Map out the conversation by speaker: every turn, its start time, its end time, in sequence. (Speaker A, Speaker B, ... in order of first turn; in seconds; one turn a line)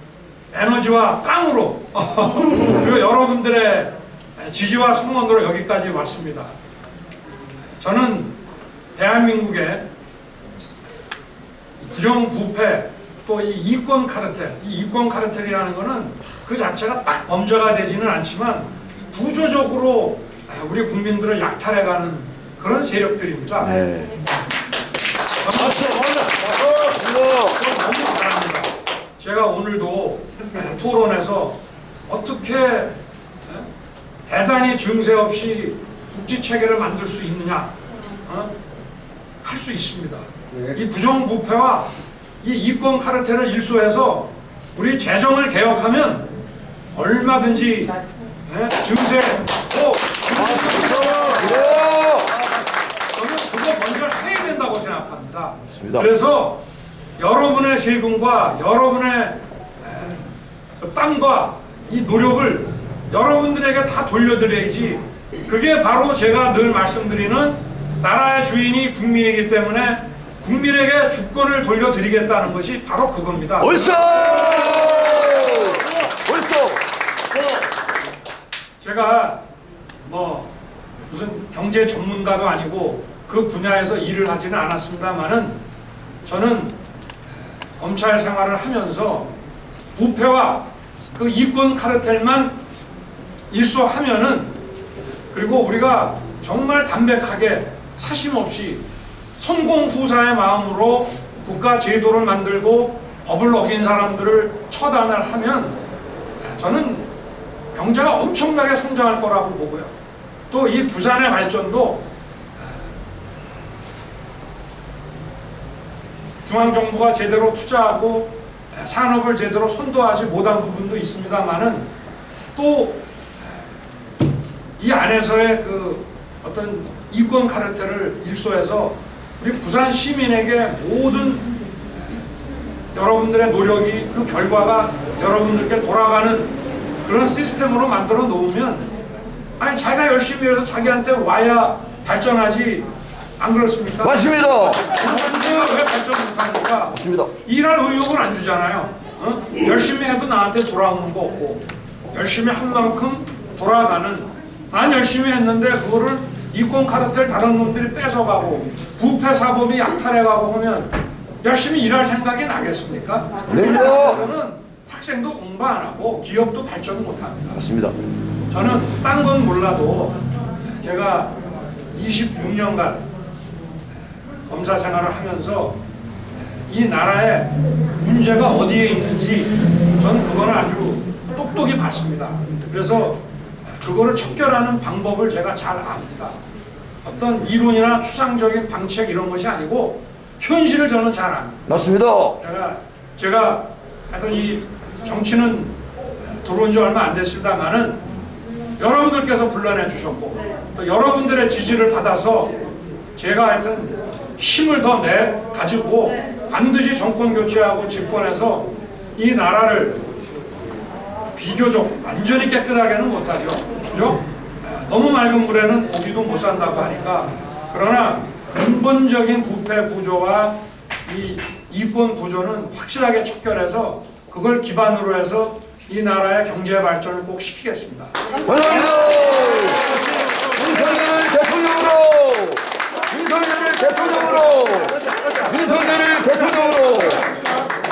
Speaker A: 0.5-6.5
Speaker A: 7.8-8.4
Speaker A: 8.9-9.8
Speaker A: 11.8-23.9
Speaker B: 23.7-24.2
Speaker A: 25.4-33.0
Speaker B: 25.6-27.5
Speaker A: 34.3-38.5
Speaker A: 39.4-41.9
Speaker A: 42.4-46.3
Speaker A: 46.9-51.9
Speaker B: 50.4-52.3
Speaker A: 53.1-56.6
Speaker B: 55.8-56.1
Speaker A: 57.2-60.2
Speaker A: 60.8-74.3
Speaker B: 73.6-76.8
Speaker A: 78.8-79.4
Speaker A: 80.0-80.5
Speaker A: 81.1-85.6
Speaker A: 86.2-86.8
Speaker A: 87.8-89.3
Speaker A: 89.9-92.6
Speaker A: 93.5-94.5
Speaker A: 95.3-98.8
Speaker A: 99.4-105.8
Speaker A: 106.4-107.1
Speaker A: 107.7-109.9
Speaker A: 110.5-112.1
Speaker A: 116.5-121.9
Speaker A: 122.5-123.0
Speaker A: 124.8-131.5
Speaker A: 132.9-138.9
Speaker A: 139.6-167.6
Speaker B: 144.0-144.9
Speaker B: 146.9-147.3
Speaker B: 163.5-164.2
Speaker B: 167.6-167.9
Speaker A: 168.5-171.3
Speaker A: 171.9-173.0
Speaker A: 174.5-175.8
Speaker A: 176.7-186.4
Speaker A: 187.0-191.7
Speaker B: 191.7-192.4
Speaker A: 192.4-195.8
Speaker A: 196.4-198.0
Speaker A: 198.8-202.5
Speaker A: 203.2-210.1
Speaker A: 211.3-228.1
Speaker B: 228.4-237.2